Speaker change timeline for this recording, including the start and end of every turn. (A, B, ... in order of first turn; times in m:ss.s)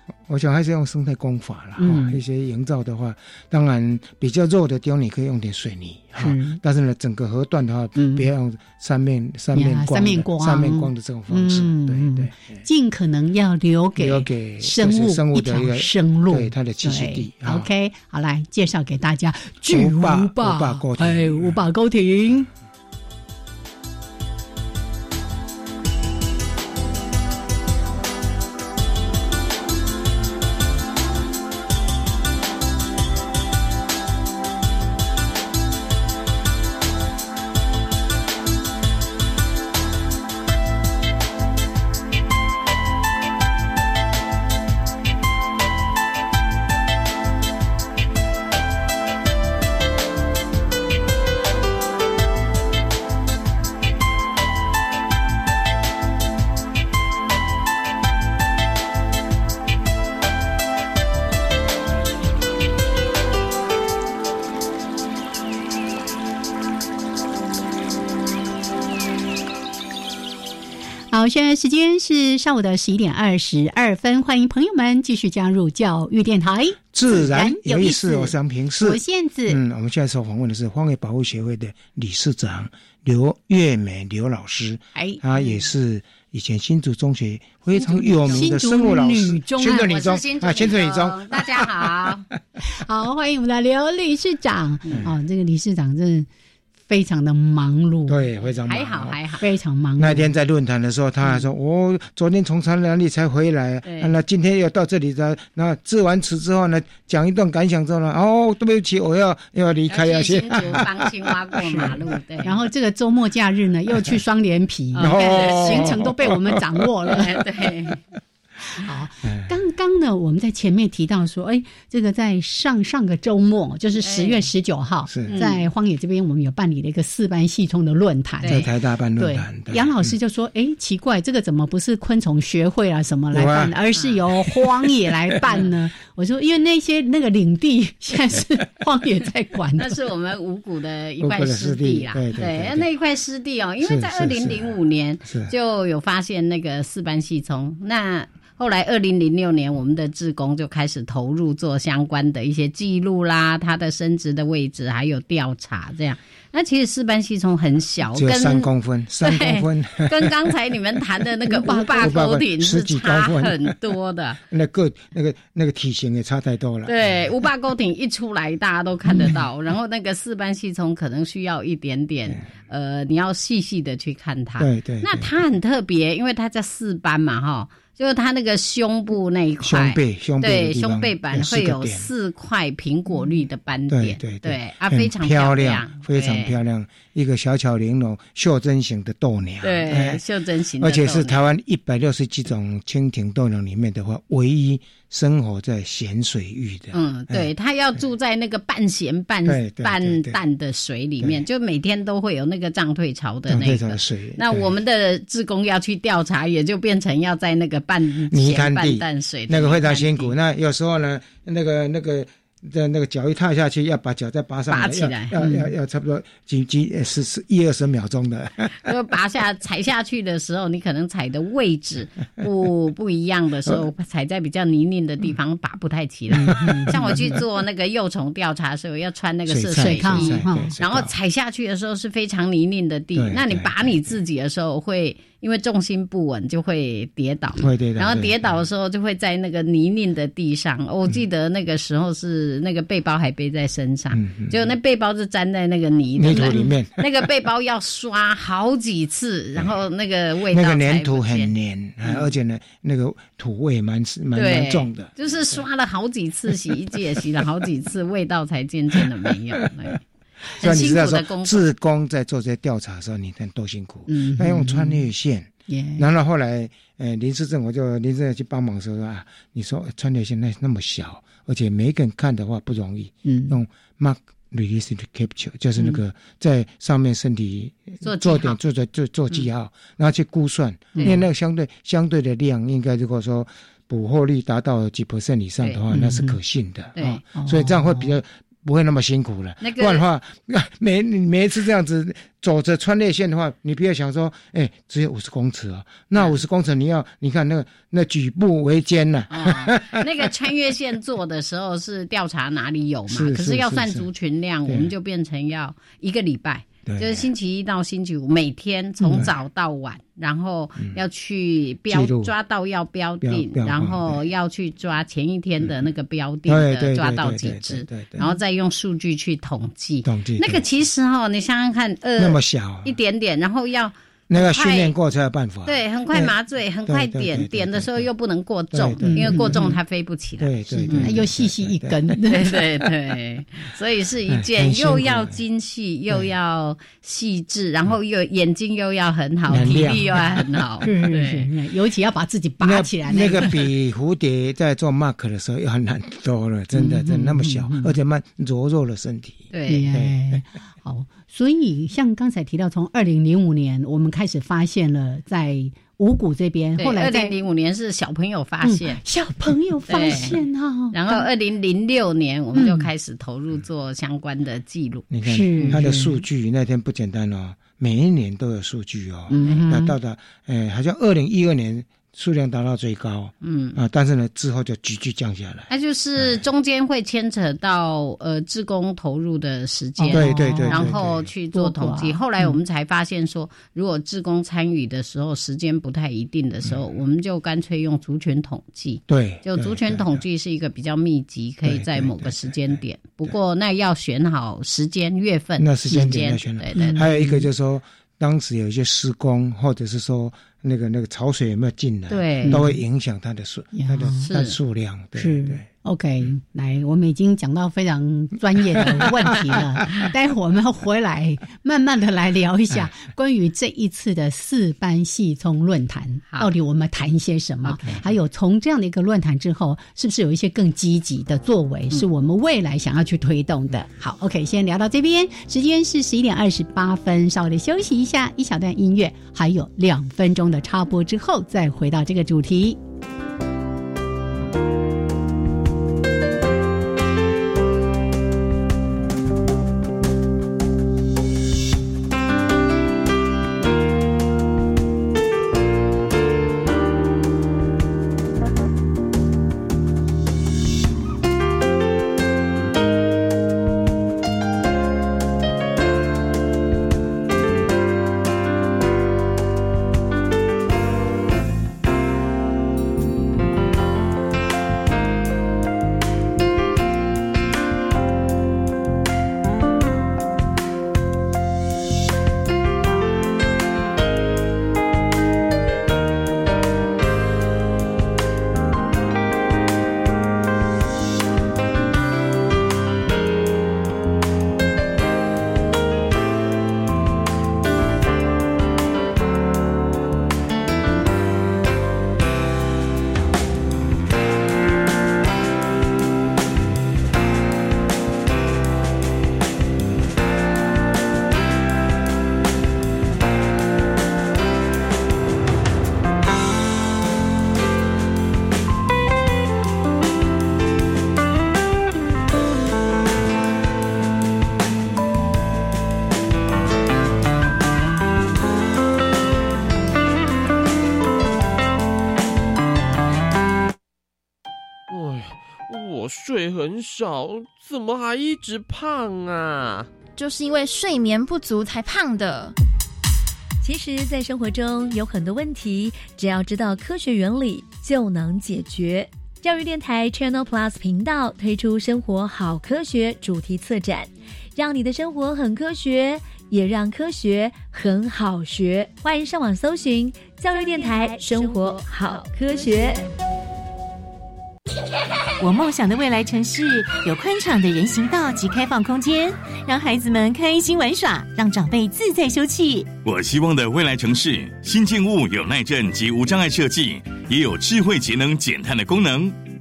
0:00.3-0:12.6 A
0:01.8-0:02.2 B
0:06.2-0:06.6 B
0:08.0-0:08.3 B
0:09.5-0:22.5 B
0:14.0-0:17.7 A
0:19.7-0:21.6 A
1:11.1-1:19.6 B
1:16.9-1:32.1 A
1:25.0-1:25.5 B
1:27.8-1:28.5 C
1:28.3-1:29.9 B
1:29.7-1:32.2 C
1:32.6-1:36.3 B
1:36.9-1:38.2 B
1:38.1-1:39.2 A
1:38.7-1:39.4 C
1:39.4-1:40.3 B
1:40.0-1:51.1 A
1:43.8-1:44.1 C
1:49.9-1:52.5 C
1:52.4-1:57.3 B
1:55.0-1:56.6 A
1:55.0-1:56.0 C
1:57.1-1:58.0 C
1:58.7-2:08.7 B
1:59.2-1:59.5 A
2:04.0-2:04.4 C
2:05.1-2:05.4 A
2:05.3-2:05.6 C
2:08.5-2:10.1 A
2:09.2-2:20.0 B
2:13.3-2:13.7 A
2:19.8-2:38.7 C
2:21.2-2:22.9 A
2:23.8-2:24.7 A
2:25.2-2:25.5 A
2:38.1-2:40.3 A
2:39.2-2:44.4 C
2:41.5-2:42.2 B
2:41.6-2:43.8 A
2:44.5-2:47.3 A
2:46.9-3:06.6 C
2:49.1-2:49.4 B
2:54.6-2:55.3 A
2:59.6-3:02.1 A
3:03.9-3:10.2 A
3:09.6-3:11.4 C
3:10.8-3:17.5 A
3:16.9-3:30.3 C
3:19.4-3:20.4 A
3:23.5-3:24.7 A
3:28.3-3:38.7 A
3:34.7-3:35.3 C
3:35.4-3:35.7 B
3:38.8-4:11.5 C
3:46.3-3:47.2 B
3:46.4-3:47.2 A
3:49.5-3:51.1 A
3:49.7-3:50.7 B
3:53.2-3:54.0 A
3:57.6-3:58.6 A
4:04.1-4:04.5 A
4:06.2-4:07.0 A
4:10.5-4:15.1 A
4:14.3-4:20.0 C
4:20.6-4:21.7 C
4:20.6-5:00.3 A
4:24.1-4:25.1 B
4:25.7-4:26.1 B
4:33.2-4:33.6 B
4:38.0-4:38.6 C
4:45.9-4:46.4 B
4:47.0-4:47.2 C
4:47.0-4:48.2 B
4:49.6-4:50.0 C
4:59.3-5:24.9 C
5:03.1-5:04.1 A
5:04.7-5:04.9 A
5:06.9-5:07.3 A
5:09.0-5:09.3 A
5:11.9-5:12.3 A
5:13.2-5:14.2 A
5:16.5-5:18.2 A
5:20.0-5:20.6 A
5:22.2-5:22.9 A
5:24.3-5:26.3 A
5:25.6-5:31.1 C
5:26.9-5:28.1 A
5:28.7-5:29.6 A
5:29.0-5:29.8 B
5:30.4-5:32.2 A
5:30.9-5:32.6 B
5:32.3-5:41.5 C
5:34.3-5:35.4 A
5:39.5-5:40.9 A
5:39.5-5:39.9 B
5:40.8-5:43.5 B
5:42.6-5:50.2 A
5:46.7-5:47.9 B
5:49.5-5:49.9 C
5:49.7-5:57.3 B
5:56.8-5:59.0 C
5:58.6-6:01.2 B
5:59.9-6:00.4 C
6:00.9-6:05.8 C
6:02.6-6:02.9 B
6:05.1-6:16.4 A
6:05.3-6:06.2 B
6:09.3-6:09.9 B
6:13.4-6:13.8 C
6:15.7-6:37.0 C
6:20.0-6:20.9 B
6:20.1-6:21.3 A
6:21.5-6:22.6 B
6:29.1-6:30.2 A
6:31.6-6:33.3 A
6:35.6-6:45.7 A
6:36.8-6:37.4 B
6:42.1-6:42.6 C
6:42.4-6:42.8 B
6:43.7-6:44.3 B
6:44.2-6:44.6 C
6:45.2-7:12.8 B
6:57.6-6:58.0 C
8:44.9-8:49.9 D
8:50.2-8:52.6 E
8:53.6-9:13.1 F
9:15.4-9:22.9 G
9:23.0-9:29.4 H